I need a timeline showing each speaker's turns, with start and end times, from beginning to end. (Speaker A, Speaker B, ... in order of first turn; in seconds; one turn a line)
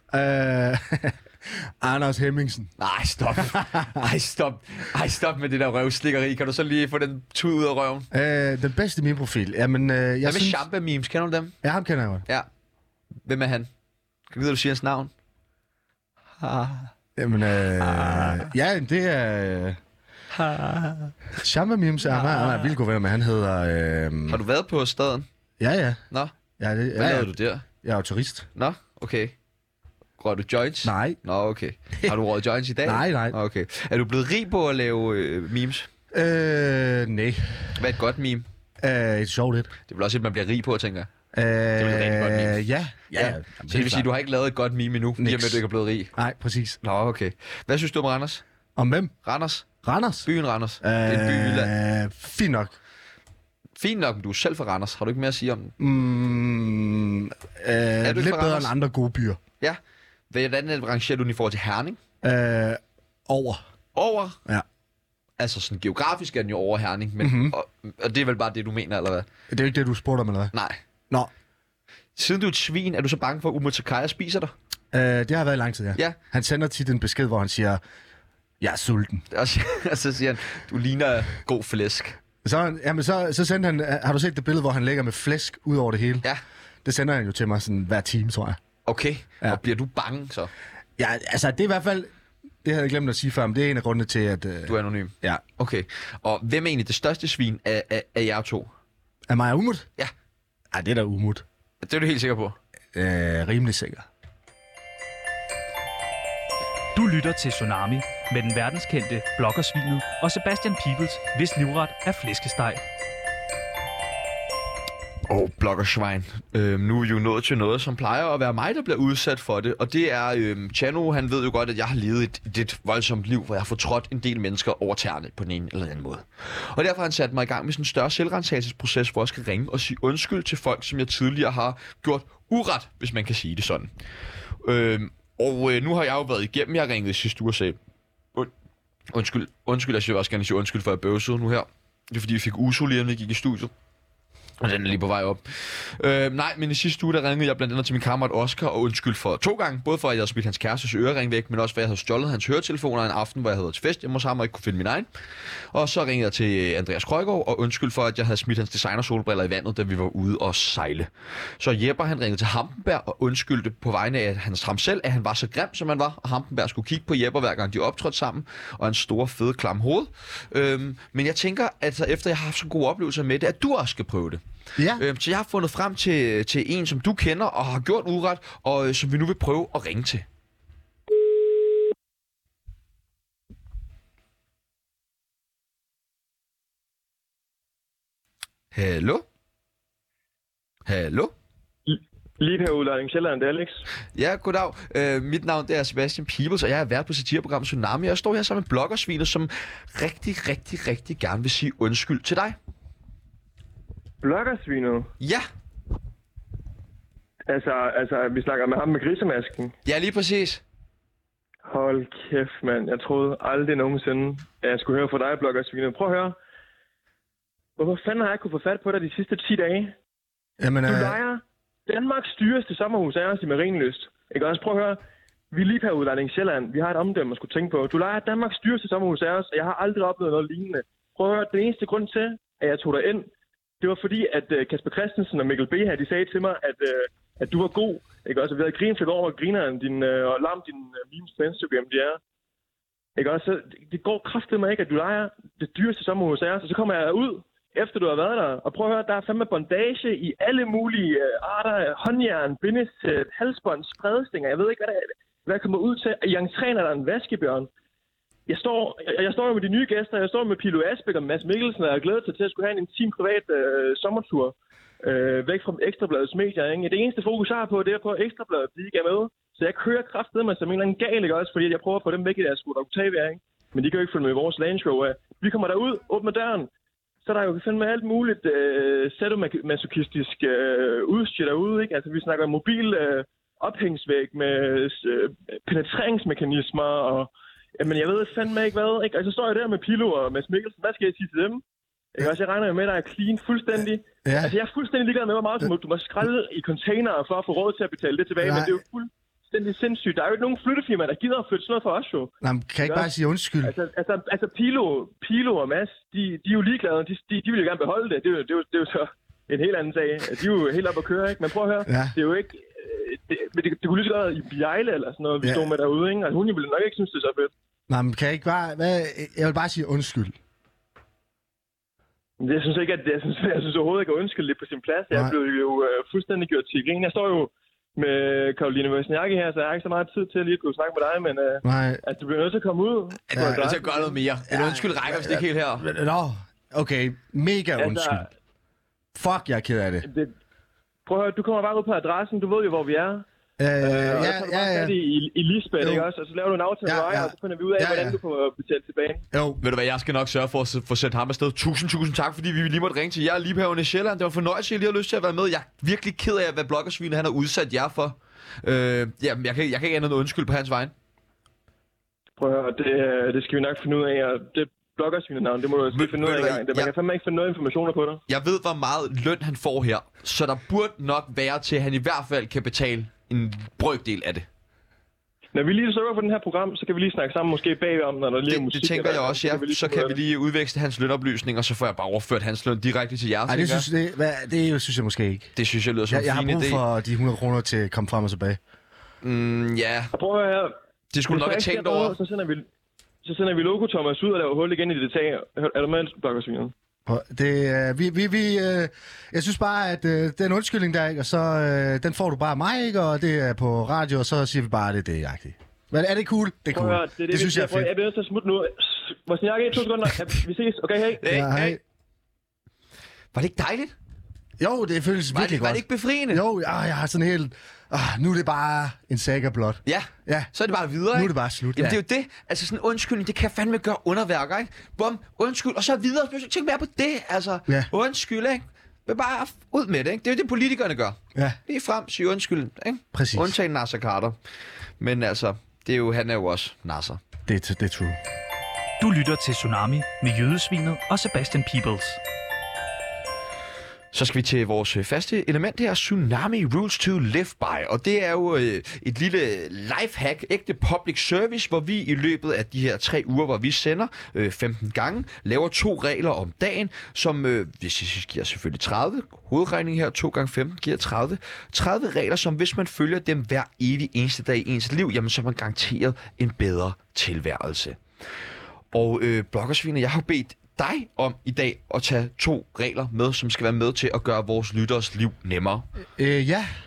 Speaker A: 0.1-2.7
Speaker B: 2.8-8.1
Speaker A: 3.4-4.0
Speaker A: 8.1-10.6
Speaker B: 10.2-11.6
Speaker A: 11.6-12.2
Speaker B: 13.2-13.7
Speaker B: 14.3-15.1
Speaker A: 16.4-19.8
Speaker B: 17.8-18.4
Speaker B: 20.4-21.1
Speaker A: 21.3-24.4
Speaker B: 24.3-25.2
Speaker A: 25.6-26.0
Speaker A: 26.6-27.3
Speaker B: 26.9-27.6
Speaker A: 27.8-28.5
Speaker B: 28.5-29.3
Speaker B: 30.2-35.9
Speaker A: 30.8-31.2
Speaker A: 32.8-33.4
Speaker A: 36.1-37.7
Speaker B: 37.7-38.5
Speaker A: 38.8-39.7
Speaker B: 39.9-41.1
Speaker A: 41.3-44.1
Speaker B: 41.8-42.6
Speaker B: 43.1-46.1
Speaker A: 45.2-45.6
Speaker A: 46.1-46.8
Speaker B: 46.8-48.4
Speaker A: 48.8-49.1
Speaker B: 49.2-49.7
Speaker A: 49.8-50.3
Speaker B: 50.2-51.7
Speaker A: 50.8-52.8
Speaker B: 53.8-55.7
Speaker A: 55.8-59.4
Speaker B: 58.0-58.7
Speaker B: 59.6-62.0
Speaker A: 62.2-63.6
Speaker B: 63.9-64.4
Speaker B: 65.4-69.3
Speaker A: 67.2-67.5
Speaker A: 69.5-70.5
Speaker B: 70.5-70.8
Speaker B: 72.2-74.5
Speaker A: 74.9-77.8
Speaker A: 78.6-79.2
Speaker B: 79.3-82.2
Speaker A: 82.4-86.2
Speaker A: 86.8-88.6
Speaker B: 88.8-90.5
Speaker A: 91.0-92.1
Speaker A: 92.6-95.4
Speaker B: 94.7-98.7
Speaker A: 99.3-99.9
Speaker A: 100.7-101.4
Speaker B: 101.8-102.6
Speaker A: 102.9-104.0
Speaker C: 106.9-112.8
Speaker B: 115.3-133.9
Speaker B: 134.6-137.8
Speaker B: 139.1-143.7
Speaker B: 144.6-155.1
Speaker B: 155.7-174.4
Speaker A: 174.8-175.0
Speaker B: 174.9-180.2
Speaker B: 188.7-189.2
Speaker B: 190.8-191.3
Speaker D: 191.8-193.8
Speaker B: 194.1-202.6
Speaker D: 204.2-205.1
Speaker B: 205.2-205.4
Speaker D: 207.5-209.7
Speaker B: 209.8-210.6
Speaker D: 211.7-216.4
Speaker D: 217.8-219.9
Speaker A: 220.6-221.2
Speaker D: 220.8-225.0
Speaker D: 225.5-233.3
Speaker D: 233.8-242.2
Speaker D: 243.2-257.7
Speaker D: 258.5-276.7
Speaker D: 277.2-291.6
Speaker D: 292.1-302.3
Speaker A: 294.2-294.5
Speaker A: 298.4-298.8
Speaker A: 302.4-303.7
Speaker D: 302.8-303.1
Speaker D: 303.6-317.5
Speaker A: 311.9-312.1
Speaker A: 315.4-315.7
Speaker A: 317.9-320.4
Speaker D: 322.4-334.2
Speaker A: 331.6-332.0
Speaker B: 333.3-335.9
Speaker A: 334.5-338.3
Speaker D: 337.8-338.3
Speaker A: 339.1-340.1
Speaker D: 340.0-340.3
Speaker D: 341.1-343.2
Speaker A: 343.6-344.9
Speaker D: 343.8-349.2
Speaker A: 345.8-346.1
Speaker A: 346.8-348.2
Speaker A: 349.3-349.6
Speaker B: 349.6-360.9
Speaker D: 362.4-368.2
Speaker B: 365.9-366.9
Speaker B: 368.3-374.5
Speaker D: 375.5-380.2
Speaker B: 378.4-383.9
Speaker A: 383.5-385.5
Speaker B: 385.6-386.8
Speaker A: 386.1-388.6
Speaker B: 389.2-390.1
Speaker D: 390.1-390.8
Speaker B: 391.1-392.2
Speaker D: 391.3-392.7
Speaker D: 393.2-396.7
Speaker A: 397.1-407.9
Speaker D: 406.7-411.2
Speaker B: 411.2-411.8
Speaker A: 411.2-411.8
Speaker B: 413.3-413.9
Speaker A: 414.6-420.5
Speaker B: 415.3-416.4
Speaker B: 419.9-434.4
Speaker A: 421.1-422.0
Speaker A: 433.1-433.5
Speaker B: 435.0-437.2
Speaker A: 437.5-438.2
Speaker C: 439.0-442.2
Speaker B: 444.1-468.0
Speaker B: 468.9-475.9
Speaker A: 476.1-476.7